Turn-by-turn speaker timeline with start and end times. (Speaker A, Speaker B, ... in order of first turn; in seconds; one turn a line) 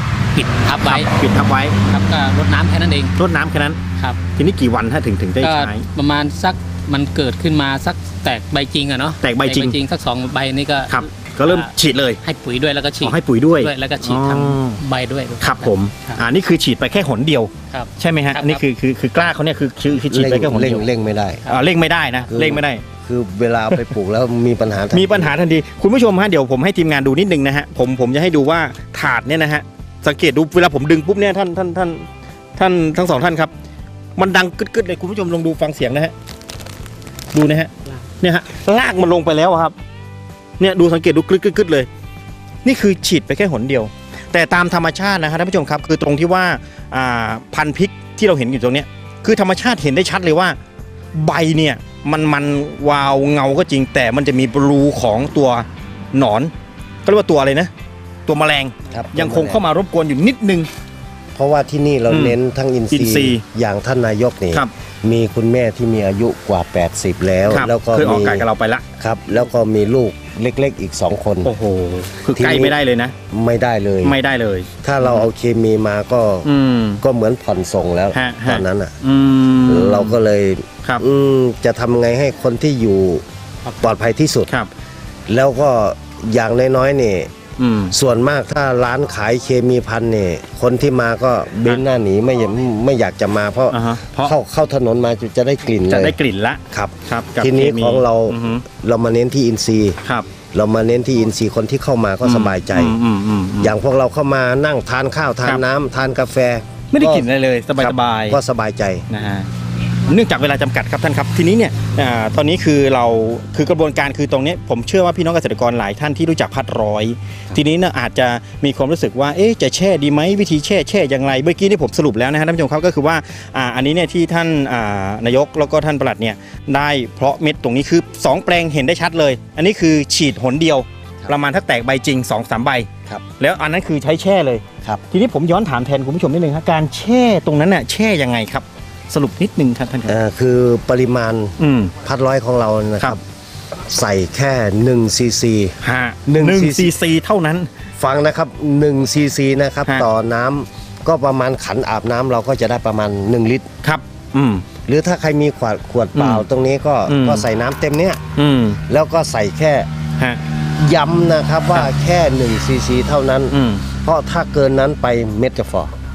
Speaker A: 0.3-1.1
Speaker B: 0.8-1.8
Speaker A: 1.8-3.1
Speaker B: 3.2-3.8
Speaker B: 4.3-5.8
Speaker A: 5.4-11.7
Speaker B: 9.2-9.8
Speaker B: 10.9-12.2
Speaker A: 12.2-16.2
Speaker B: 13.0-14.8
Speaker B: 15.4-20.8
Speaker A: 17.7-18.6
Speaker C: 20.1-21.4
Speaker B: 21.5-22.8
Speaker C: 22.3-25.3
Speaker B: 24.9-32.0
Speaker B: 32.6-33.5
Speaker B: 34.2-36.1
Speaker B: 37.3-39.7
Speaker B: 40.6-41.9
Speaker B: 42.6-50.5
Speaker B: 51.1-56.5
Speaker B: 57.0-57.7
Speaker B: 58.2-60.7
Speaker C: 58.9-59.6
Speaker C: 61.3-68.5
Speaker B: 62.1-62.4
Speaker B: 62.9-63.4
Speaker B: 67.5-68.8
Speaker C: 69.0-71.5
Speaker B: 71.4-73.1
Speaker C: 72.3-72.8
Speaker C: 73.3-74.2
Speaker B: 74.0-75.3
Speaker C: 74.8-76.5
Speaker B: 76.4-77.0
Speaker C: 77.0-78.9
Speaker B: 78.1-80.2
Speaker C: 79.7-83.2
Speaker C: 83.8-84.5
Speaker C: 85.3-87.3
Speaker B: 87.6-87.9
Speaker C: 87.9-96.1
Speaker B: 93.7-94.3
Speaker B: 95.9-98.6
Speaker C: 96.7-100.0
Speaker C: 100.5-103.0
Speaker B: 102.2-103.7
Speaker C: 103.6-107.2
Speaker B: 106.9-108.4
Speaker C: 107.8-109.0
Speaker B: 109.1-109.5
Speaker B: 110.0-140.2
Speaker C: 140.1-143.2
Speaker B: 141.6-141.9
Speaker C: 143.9-146.9
Speaker B: 145.8-147.7
Speaker C: 148.0-153.7
Speaker B: 153.8-154.7
Speaker C: 154.8-158.2
Speaker B: 156.1-156.4
Speaker B: 157.1-157.4
Speaker B: 158.4-158.8
Speaker C: 158.8-159.9
Speaker C: 160.8-165.9
Speaker B: 163.5-163.8